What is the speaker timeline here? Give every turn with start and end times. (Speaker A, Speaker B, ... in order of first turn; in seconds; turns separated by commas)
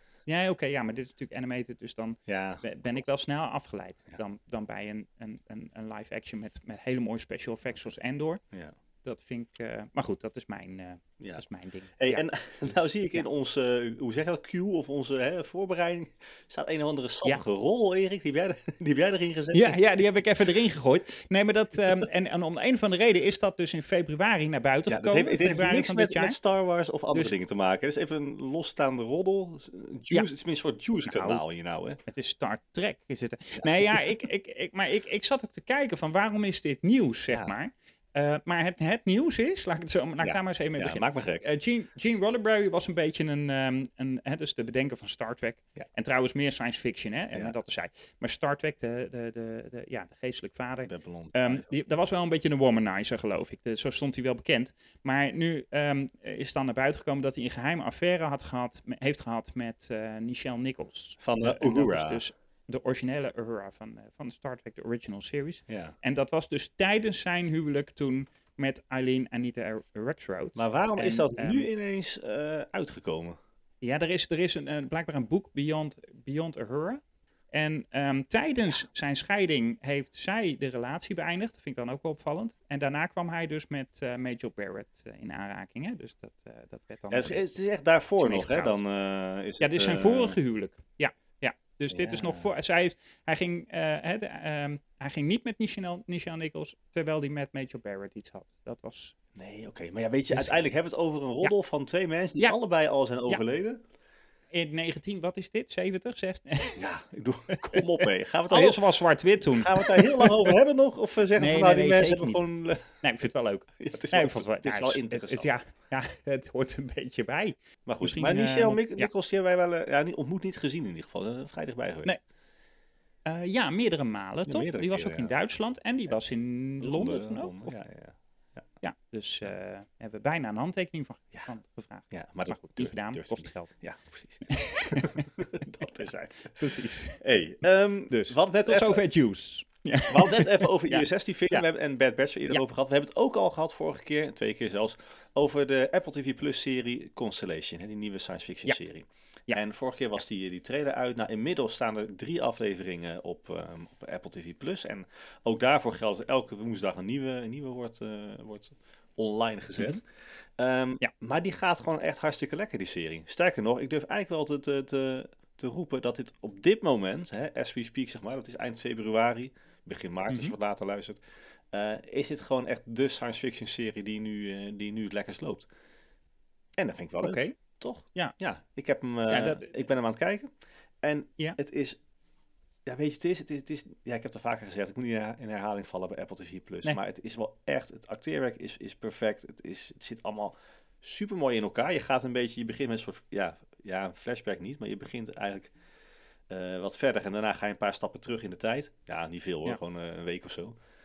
Speaker A: 0.3-8.4, Speaker B: 2.3-3.0, Speaker A: 9.0-12.2, Speaker B: 12.0-19.8, Speaker A: 19.5-26.4, Speaker B: 24.9-32.0, Speaker A: 31.1-31.4, Speaker A: 32.1-71.7, Speaker B: 33.6-34.1, Speaker B: 37.3-37.5, Speaker B: 40.2-41.5, Speaker B: 50.9-51.7, Speaker B: 61.2-62.2, Speaker B: 65.7-65.9, Speaker B: 70.5-73.4, Speaker A: 73.8-77.0, Speaker A: 77.5-87.5, Speaker B: 87.1-90.4, Speaker A: 88.2-88.8, Speaker A: 89.6-99.1, Speaker B: 91.9-92.5, Speaker B: 99.3-103.8, Speaker A: 100.3-100.6, Speaker A: 104.5-106.8, Speaker B: 106.8-108.8, Speaker A: 107.5-110.6, Speaker B: 109.4-112.8, Speaker A: 111.3-112.4, Speaker A: 113.0-119.1, Speaker B: 113.8-115.5, Speaker B: 117.9-122.2, Speaker A: 123.2-127.7, Speaker B: 124.5-125.3, Speaker B: 126.8-128.7, Speaker A: 128.8-133.7, Speaker B: 132.1-139.0, Speaker A: 134.5-135.3, Speaker A: 136.6-137.2, Speaker A: 138.1-141.6, Speaker B: 140.1-160.0, Speaker B: 160.6-171.2, Speaker A: 170.3-170.5, Speaker B: 171.7-175.7, Speaker B: 176.8-180.5, Speaker A: 177.2-177.5, Speaker A: 179.3-179.7, Speaker B: 181.0-182.0, Speaker B: 182.8-195.7, Speaker B: 196.5-200.8